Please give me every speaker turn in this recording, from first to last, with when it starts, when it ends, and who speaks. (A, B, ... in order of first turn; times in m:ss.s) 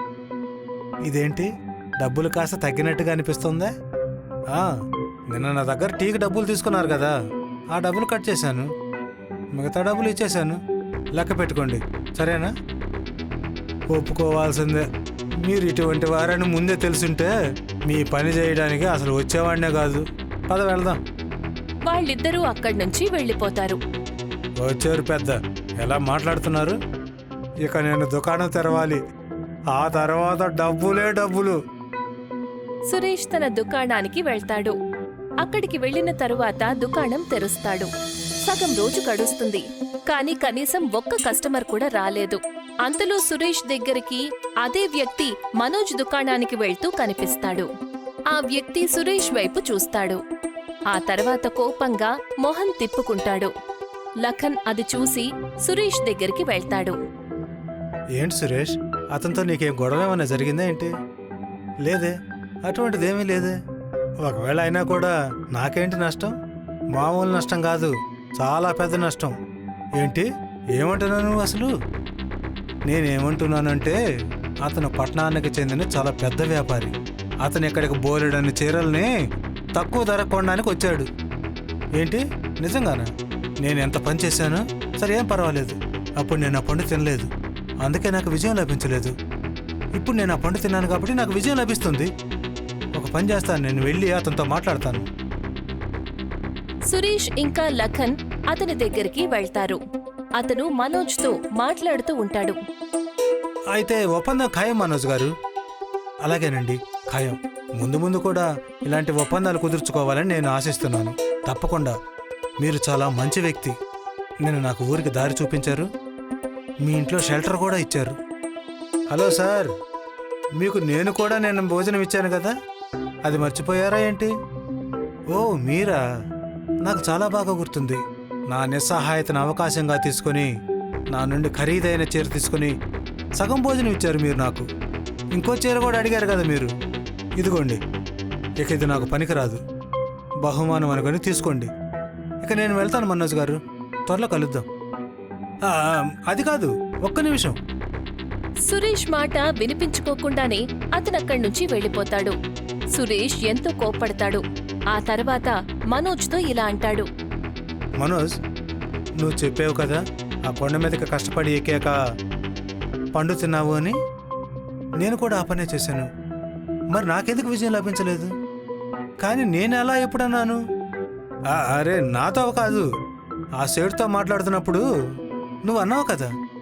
0:01.1-0:01.5 A
0:02.0-0:03.7 A
0:05.3-0:07.2 A
0:07.7-0:08.7 A
0:09.6-0:10.6 A
0:11.2-0:12.5 A
0:13.9-0:14.8 A
0:15.4-0:17.3 A
0:17.9-0:21.0 A
0:21.9-0:23.8 B
0:24.6-0:26.8 A
0:27.7-0:29.0 A
0:29.7-0:31.6 A
0:32.9-0:34.7 B
0:35.4-0:37.9 B
0:38.4-0:47.7 B
0:48.3-0:50.2 B
0:50.9-0:53.5 B
0:54.2-0:57.0 B
0:58.2-1:00.9 A
1:01.8-1:02.1 A
1:02.6-1:03.6 A
1:04.2-1:06.3 A
1:06.9-1:09.3 A
1:10.0-1:11.7 A
1:12.9-1:14.0 A
1:14.6-1:19.1 A
1:19.8-1:21.1 A
1:22.0-1:23.1 A
1:23.6-1:27.3 A
1:27.8-1:29.1 A
1:30.0-1:32.1 A
1:33.0-1:35.1 A
1:36.9-1:39.8 B
1:40.4-1:42.6 B
1:43.7-1:45.3 A
1:46.2-1:52.0 A
1:52.6-1:53.8 A
1:54.4-1:55.9 A
1:56.8-1:58.2 A
1:59.1-1:59.7 A
2:00.6-2:02.5 A
2:03.3-2:04.3 A
2:05.3-2:06.0 A
2:06.8-2:10.5 A
2:11.1-2:12.7 A
2:13.4-2:14.7 A
2:15.4-2:16.7 A
2:17.4-2:17.8 A
2:18.6-2:19.6 A
2:20.4-2:21.7 A
2:22.4-2:24.6 A
2:25.7-2:27.6 A
2:28.7-2:32.3 B
2:33.0-2:34.4 B
2:34.9-2:37.0 B
2:38.0-2:38.3 A
2:39.2-2:42.0 A
2:43.1-2:44.0 A
2:45.0-2:46.1 A
2:46.9-2:48.3 A
2:49.2-2:50.6 A
2:51.5-2:52.9 A
2:53.6-2:54.8 A
2:55.6-2:56.3 A